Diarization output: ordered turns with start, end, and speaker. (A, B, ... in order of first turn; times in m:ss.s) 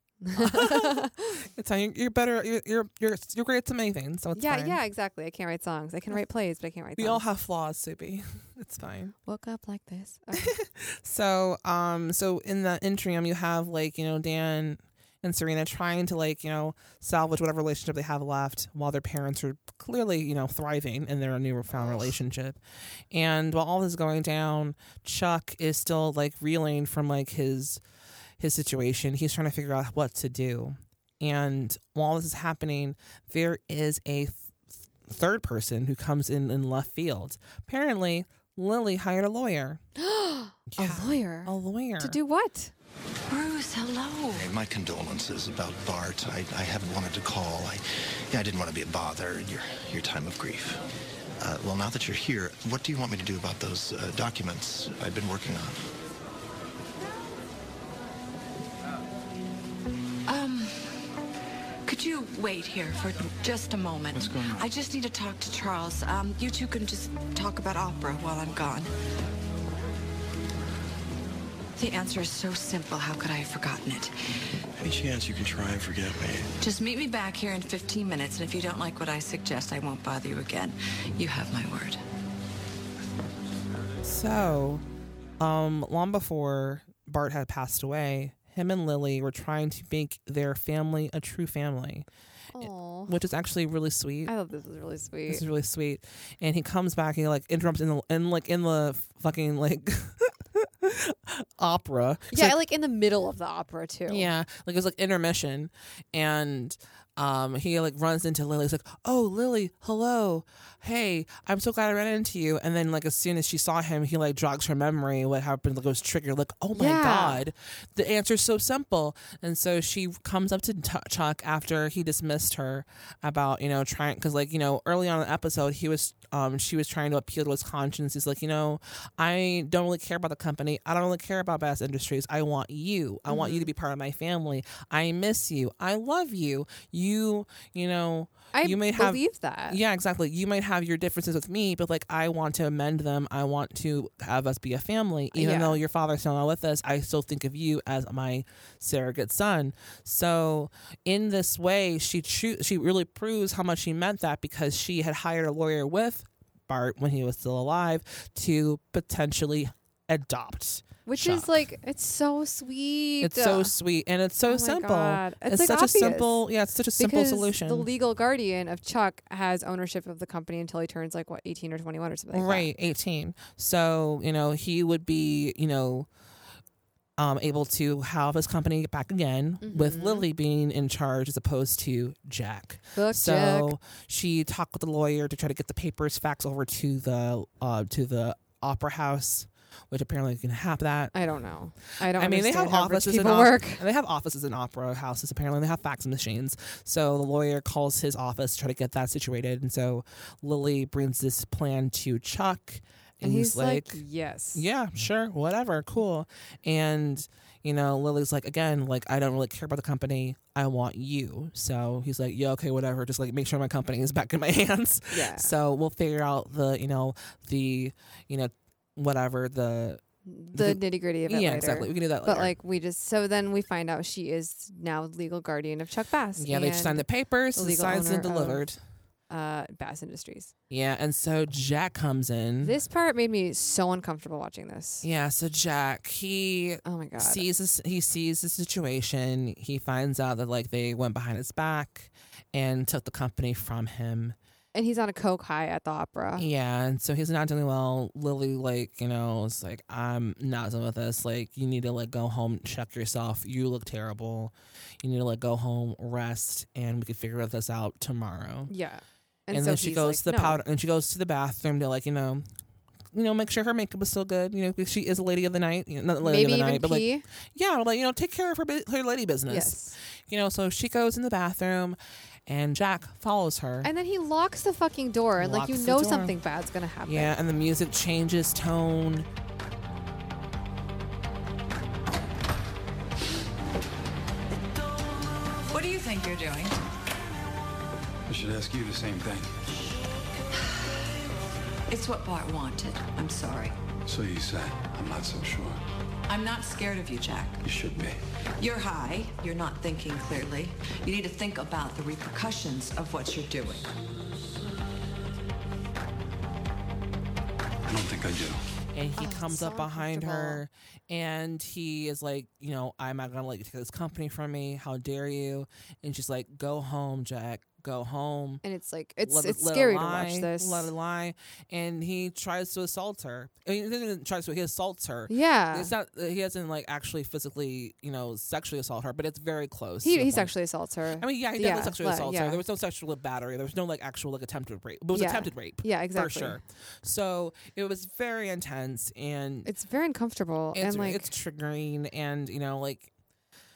0:00.2-0:01.4 A
0:00.4-0:04.8 B
0:04.3-0:07.2 A
0:07.0-0:09.1 B
0:09.2-0:10.5 A
0:10.3-0:22.6 B
0:23.1-0:27.8 B
0:28.4-0:34.5 B
0:35.0-0:39.8 B
0:40.0-0:42.7 A
0:40.7-0:42.2 B
0:43.3-0:44.5 C
0:44.4-0:50.8 D
0:51.4-0:55.8 D
1:00.3-1:01.0 C
1:01.8-1:08.9 C
1:11.8-1:14.1 C
1:14.8-1:16.5 D
1:16.6-1:22.0 C
1:24.0-1:24.8 B
1:25.4-1:32.1 B
1:32.5-1:33.2 A
1:32.6-1:34.3 B
1:34.3-1:35.4 A
1:35.3-1:42.6 B
1:42.3-1:44.3 A
1:44.1-2:41.6 B
1:56.7-1:57.4 A
2:13.3-2:13.7 A
2:18.5-2:19.8 A
2:25.3-2:25.8 A
2:41.0-2:43.7 A
2:43.2-2:47.9 B
2:44.4-2:46.4 A
2:47.0-2:52.7 A
2:52.3-2:56.1 B
2:57.2-3:11.1 B
2:59.6-3:00.3 A
3:02.9-3:03.7 A
3:11.1-3:13.8 A
3:12.0-3:40.0 B
3:23.2-3:24.6 A
3:35.1-3:35.5 A
3:40.2-3:48.6 A
3:40.5-3:42.5 B
3:46.4-3:48.8 B
3:49.3-3:50.5 A
3:50.7-3:52.8 B
3:52.6-3:55.0 A
3:55.0-4:04.4 B
3:56.8-3:57.4 A
4:04.7-4:06.4 A
4:06.4-4:18.7 B
4:18.7-4:20.6 A
4:19.5-4:22.4 B
4:23.1-4:33.9 B
4:26.2-4:27.2 A
4:29.5-4:30.0 A
4:33.8-4:37.3 A
4:35.4-4:36.3 B
4:37.0-4:39.3 B
4:45.7-4:46.8 C
4:48.2-4:49.5 E
4:51.9-4:53.8 C
4:54.0-4:55.8 E
4:56.3-4:57.6 C
4:57.6-4:58.2 E
4:58.6-5:03.9 C
5:07.8-5:08.6 E
5:08.9-5:18.6 B
5:09.2-5:10.6 A
5:18.6-5:20.9 A
5:19.2-5:30.5 B
5:25.3-5:25.9 A
5:30.0-5:32.6 A
5:31.2-5:39.7 B
5:35.1-5:36.6 A
5:39.6-5:41.3 A
5:40.7-5:43.1 B